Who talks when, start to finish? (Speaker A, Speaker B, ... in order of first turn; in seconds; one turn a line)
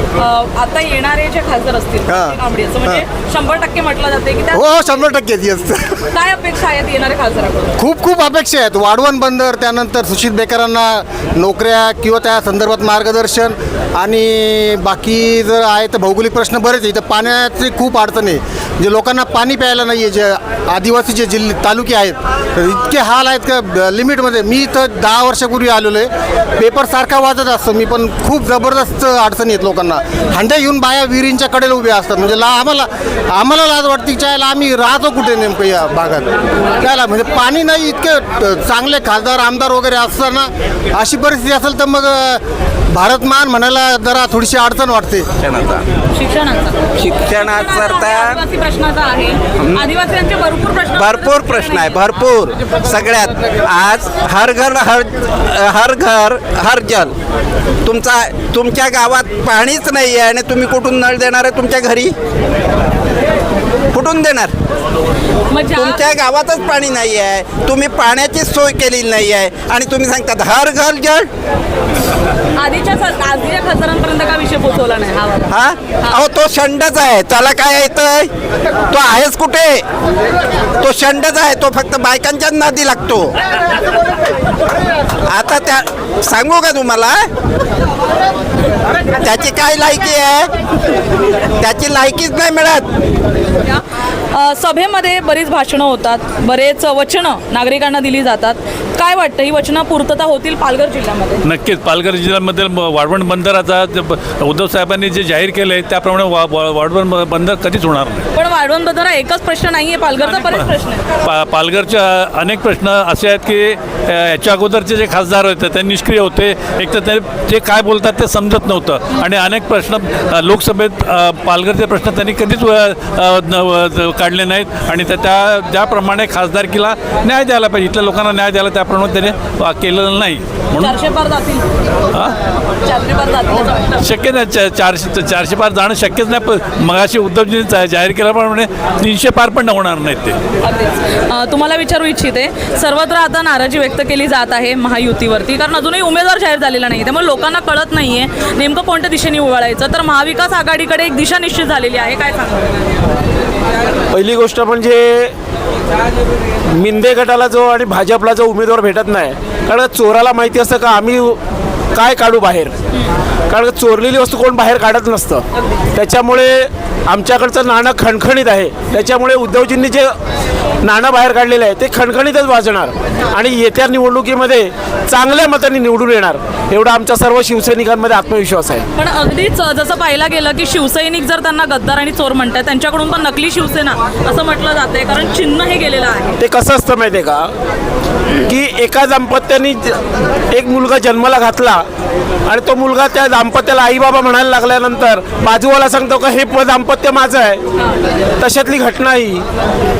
Speaker A: 0.2-5.1
Speaker B: 2.1-3.0
Speaker B: 4.5-5.9
Speaker A: 6.1-7.7
Speaker B: 7.8-42.4
Speaker B: 43.0-45.3
Speaker C: 45.4-45.8
Speaker A: 46.1-52.0
Speaker C: 47.0-48.4
Speaker C: 50.9-57.1
Speaker C: 57.8-62.1
Speaker C: 63.9-64.5
Speaker A: 65.5-66.0
Speaker C: 65.8-71.3
Speaker A: 72.6-76.2
Speaker C: 75.5-78.3
Speaker C: 78.9-79.8
Speaker C: 80.8-83.3
Speaker C: 85.3-87.2
Speaker C: 89.2-90.5
Speaker C: 91.6-92.9
Speaker A: 94.3-101.4
Speaker D: 101.4-108.3
Speaker A: 108.3-111.0
Speaker D: 110.3-110.7
Speaker D: 111.2-131.0
Speaker A: 130.8-131.7
Speaker A: 132.8-134.0
Speaker D: 134.0-140.4
Speaker A: 140.6-152.9
Speaker E: 154.1-155.3
Speaker E: 156.7-161.4
Speaker E: 161.9-162.7
Speaker E: 163.5-170.1
Speaker E: 170.8-178.9
Speaker A: 178.9-186.4
Speaker E: 186.4-187.5
Speaker E: 188.5-191.9
Speaker E: 192.5-197.6
Speaker E: 198.4-199.4